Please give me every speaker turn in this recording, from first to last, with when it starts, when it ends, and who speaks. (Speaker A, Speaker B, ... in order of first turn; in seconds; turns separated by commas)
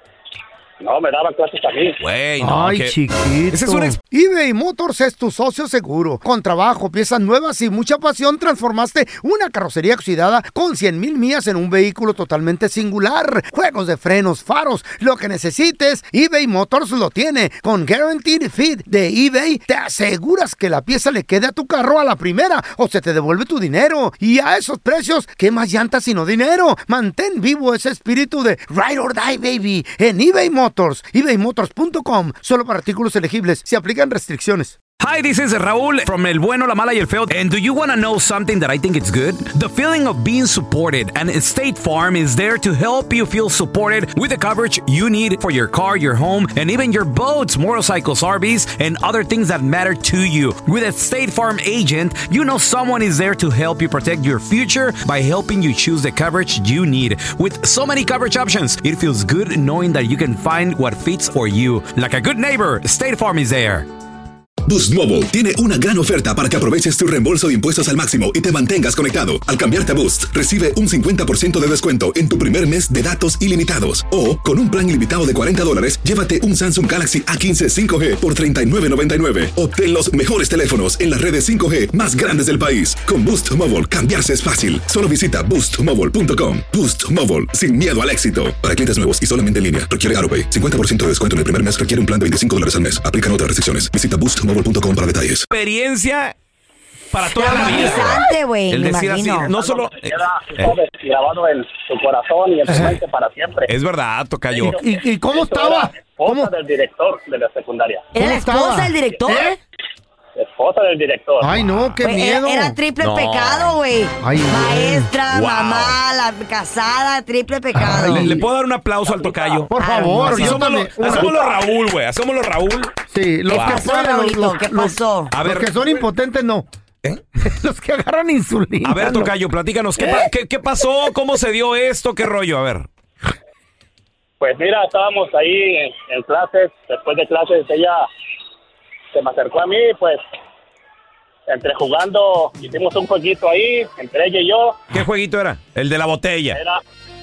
Speaker A: 0.8-2.0, Speaker B: 2.0-3.0, Speaker C: 2.4-34.8, Speaker B: 3.5-4.0, Speaker B: 35.0-63.9, Speaker D: 64.7-95.5, Speaker B: 95.5-96.3, Speaker B: 97.1-100.8, Speaker E: 97.3-99.5, Speaker C: 97.8-98.1, Speaker A: 99.5-103.7, Speaker C: 102.7-102.9, Speaker B: 103.7-104.8, Speaker A: 104.5-104.8, Speaker C: 104.7-106.5, Speaker A: 105.3-108.1, Speaker E: 108.1-109.5, Speaker C: 108.2-109.6, Speaker A: 110.4-111.5, Speaker C: 111.4-112.8, Speaker E: 112.0-118.3, Speaker B: 113.0-113.8, Speaker C: 114.2-115.1, Speaker B: 115.3-116.0, Speaker C: 117.8-118.4, Speaker B: 118.1-119.7, Speaker A: 119.1-119.7, Speaker C: 119.7-121.3, Speaker E: 119.8-120.6, Speaker B: 120.2-122.9, Speaker C: 123.1-126.7, Speaker E: 123.5-125.3, Speaker B: 123.5-123.9, Speaker B: 125.3-125.7, Speaker C: 127.4-129.3, Speaker B: 128.8-132.9, Speaker C: 130.0-130.3, Speaker A: 134.4-138.0, Speaker A: 139.1-140.2, Speaker A: 141.5-144.8, Speaker B: 144.9-146.6, Speaker A: 146.5-146.8